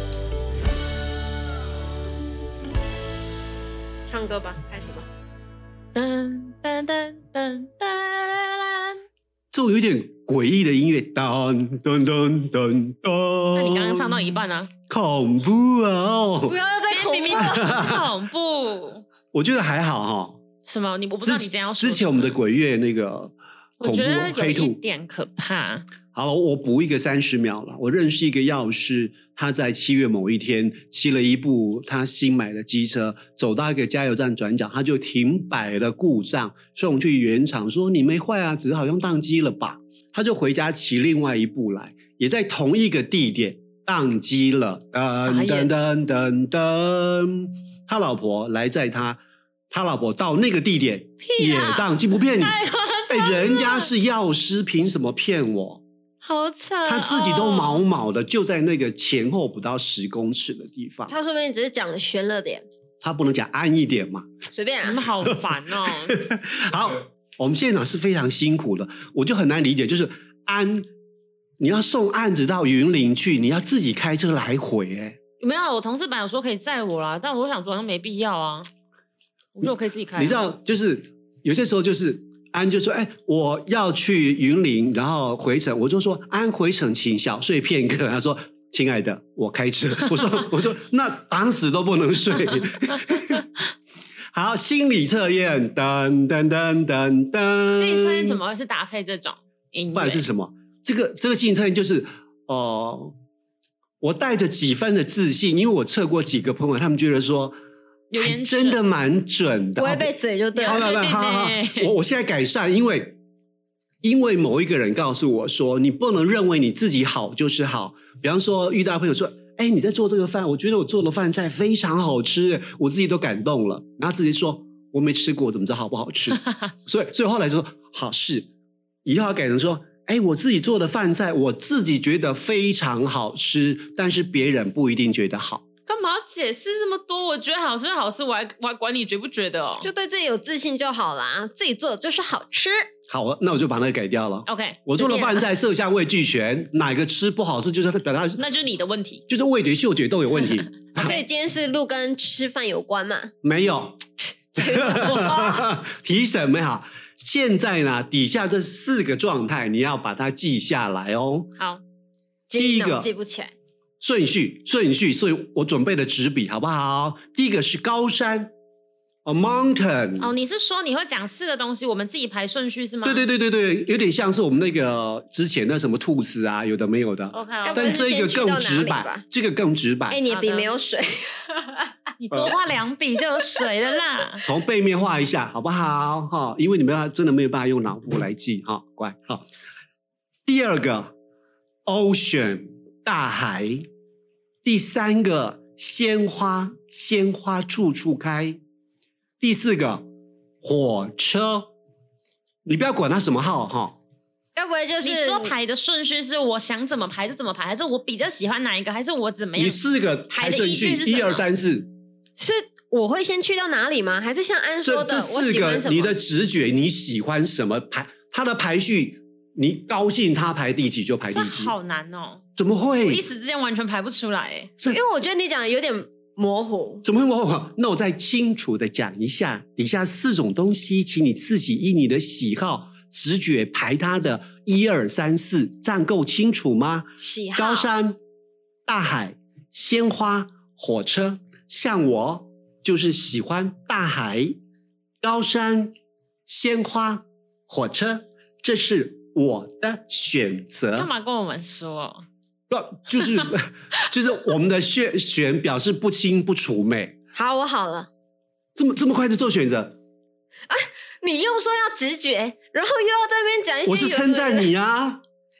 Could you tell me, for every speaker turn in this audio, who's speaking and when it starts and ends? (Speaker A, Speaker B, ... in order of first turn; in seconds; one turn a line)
Speaker A: 4.1-5.1
Speaker B: 6.0-9.0
Speaker C: 9.5-16.6
Speaker B: 13.5-14.7
Speaker A: 16.5-17.9
Speaker B: 16.9-19.1
Speaker C: 17.3-18.1
Speaker C: 19.3-20.4
Speaker B: 20.6-22.4
Speaker C: 21.2-24.8
Speaker B: 23.8-25.9
Speaker C: 26.1-55.8
Speaker B: 45.2-45.7
Speaker B: 51.2-51.9
Speaker A: 52.4-53.8
Speaker B: 56.2-57.9
Speaker C: 56.9-61.1
Speaker A: 61.1-62.6
Speaker C: 63.0-64.3
Speaker A: 64.5-65.0
Speaker B: 64.8-66.2
Speaker C: 65.2-70.9
Speaker C: 71.6-75.2
Speaker B: 75.4-78.7
Speaker B: 79.6-80.4
Speaker C: 80.2-93.5
Speaker C: 94.3-98.4
Speaker B: 97.8-100.2
Speaker C: 99.9-103.1
Speaker C: 104.0-107.6
Speaker B: 108.1-108.8
Speaker C: 108.2-110.1
Speaker A: 109.8-110.9
Speaker B: 110.5-111.9
Speaker C: 110.7-113.2
Speaker C: 114.0-128.5
Speaker C: 129.1-135.6
Speaker B: 135.9-139.9
Speaker A: 139.8-142.9
Speaker C: 143.1-148.4
Speaker B: 144.5-145.5
Speaker B: 148.4-149.2
Speaker C: 149.3-151.2
Speaker B: 150.9-151.2
Speaker A: 150.9-153.3
Speaker C: 153.4-154.0
Speaker A: 154.6-155.6
Speaker C: 154.6-161.5
Speaker B: 155.1-155.5
Speaker B: 161.6-161.8
Speaker A: 162.5-163.5
Speaker C: 162.6-163.1
Speaker C: 164.0-168.5
Speaker C: 169.2-170.3
Speaker B: 170.2-173.3
Speaker C: 173.0-180.2
Speaker B: 177.3-178.0
Speaker A: 177.6-179.2
Speaker A: 180.1-181.9
Speaker B: 180.3-180.7
Speaker B: 182.2-184.4
Speaker C: 184.4-189.5
Speaker C: 190.5-191.1
Speaker C: 191.9-193.9
Speaker C: 194.6-198.6
Speaker C: 199.4-200.1
Speaker C: 200.6-201.7
Speaker C: 202.7-204.0
Speaker A: 204.6-205.5
Speaker B: 205.0-211.5
Speaker C: 209.6-211.9
Speaker A: 212.4-216.2
Speaker C: 214.8-221.7
Speaker B: 221.3-222.4
Speaker C: 222.6-223.2
Speaker B: 223.0-224.7
Speaker A: 224.9-227.1
Speaker C: 227.0-238.2
Speaker A: 237.2-237.9
Speaker C: 238.9-244.6
Speaker C: 245.2-245.9
Speaker C: 246.5-251.1
Speaker B: 250.9-252.3
Speaker C: 252.7-257.1
Speaker A: 257.3-258.1
Speaker C: 258.8-260.0
Speaker A: 260.7-264.7
Speaker C: 263.9-265.2